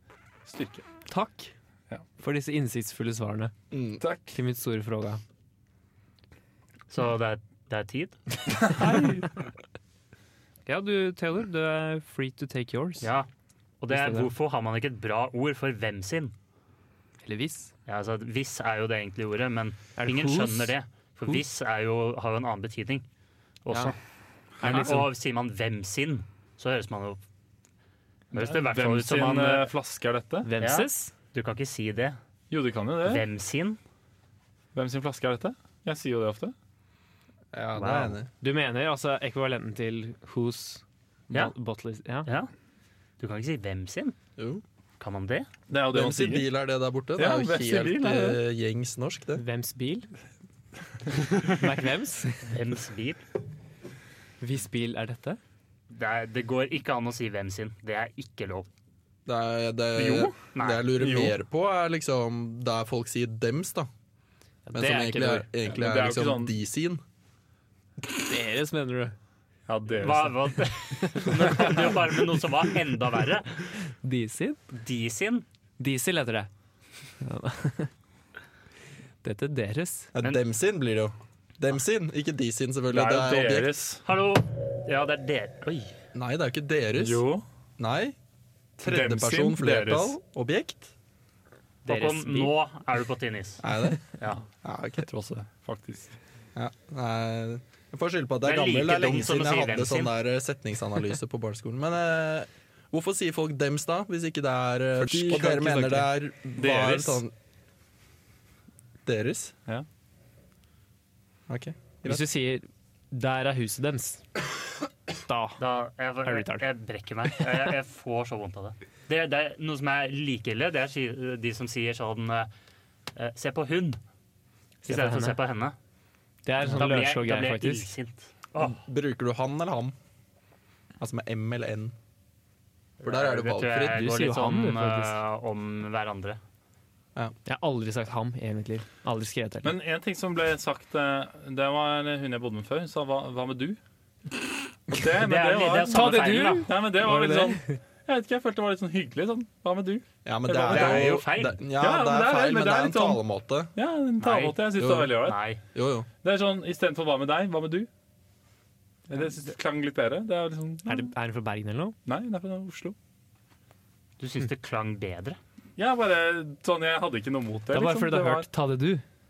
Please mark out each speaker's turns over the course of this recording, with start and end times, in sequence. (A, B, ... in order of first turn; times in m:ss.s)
0:00.4-0:00.8 A
0:01.1-0:01.5 B
0:02.2-0:03.5 B
0:03.7-0:04.0 C
0:04.0-0:04.3 A
0:04.3-0:05.2 B
0:06.9-0:08.2 D
0:08.7-0:09.2 A
0:10.6-0:13.1 B
0:13.0-0:13.3 D
0:13.8-0:16.3 D
0:13.9-0:14.3 B
0:17.2-0:17.7 B
0:17.9-0:23.0 D
0:20.0-0:20.7 B
0:23.6-0:23.9 D
0:24.6-0:25.1 B
0:24.6-0:27.2 D
0:24.6-0:24.9 A
0:28.3-0:29.7 D
0:28.4-0:30.5 A
0:30.4-0:31.1 B
0:30.6-0:32.2 D
0:32.5-0:33.2 A
0:33.0-0:33.8 D
0:34.7-0:36.5 A
0:37.5-0:38.3 C
0:37.8-0:38.1 D
0:38.4-0:42.3 B
0:43.2-0:44.1 D
0:44.4-0:44.6 C
0:45.0-0:45.5 D
0:45.7-0:46.5 A
0:45.9-0:49.4 C
0:47.2-0:48.4 A
0:49.4-0:50.1 B
0:51.3-0:52.5 B
0:52.5-0:53.2 D
0:54.4-0:55.4 B
0:55.9-0:58.7 D
0:59.2-1:03.9 C
0:59.9-1:00.3 A
1:00.5-1:00.8 D
1:01.0-1:01.3 A
1:04.6-1:05.5 B
1:04.7-1:07.0 C
1:05.7-1:06.6 A
1:08.2-1:09.1 B
1:09.7-1:10.4 A
1:10.0-1:13.6 D
1:11.0-1:11.8 B
1:11.4-1:12.0 A
1:14.0-1:14.6 B
1:14.7-1:15.4 D
1:15.8-1:16.5 B
1:17.2-1:17.9 B
1:19.2-1:20.1 B
1:20.1-1:23.7 C
1:22.9-1:24.0 A
1:24.0-1:25.9 D
1:26.1-1:27.2 C
1:27.0-1:27.4 A
1:27.8-1:28.1 C
1:28.8-1:30.9 C
1:28.8-1:30.1 A
1:31.8-1:33.6 D
1:31.9-1:32.5 B
1:33.6-1:35.1 C
1:35.0-1:36.1 A
1:36.5-1:47.3 C
1:38.4-1:40.1 D
1:45.1-1:46.0 B
1:45.1-1:46.0 A
1:46.5-1:47.2 A
1:49.0-1:49.5 C
1:51.5-1:52.2 C
1:52.0-1:54.2 B
1:55.2-1:55.6 B
1:55.6-2:02.5 D
1:56.2-1:56.6 B
2:03.2-2:04.0 D
2:04.8-2:05.4 B
2:04.8-2:05.7 D
2:06.4-2:07.9 B
2:06.6-2:08.8 D
2:08.6-2:09.9 C
2:11.0-2:11.9 C
2:13.0-2:16.4 D
2:13.0-2:14.0 C
2:13.9-2:15.2 B
2:17.4-2:19.7 B
2:19.6-2:23.8 A
2:24.9-2:31.2 A
2:25.2-2:26.7 D
2:25.9-2:27.8 B
2:30.2-2:33.7 C
2:30.6-2:31.6 D
2:31.8-2:33.2 A
2:33.7-2:35.4 A
2:34.2-2:34.6 D
2:34.8-2:35.1 C
2:35.2-2:35.6 D
2:35.7-2:36.1 C
2:36.2-2:37.9 A
2:39.1-2:41.1 A
2:40.9-2:42.0 B
2:42.0-2:42.9 A
2:44.2-2:45.4 D
2:45.8-2:48.5 A
2:47.7-2:49.0 B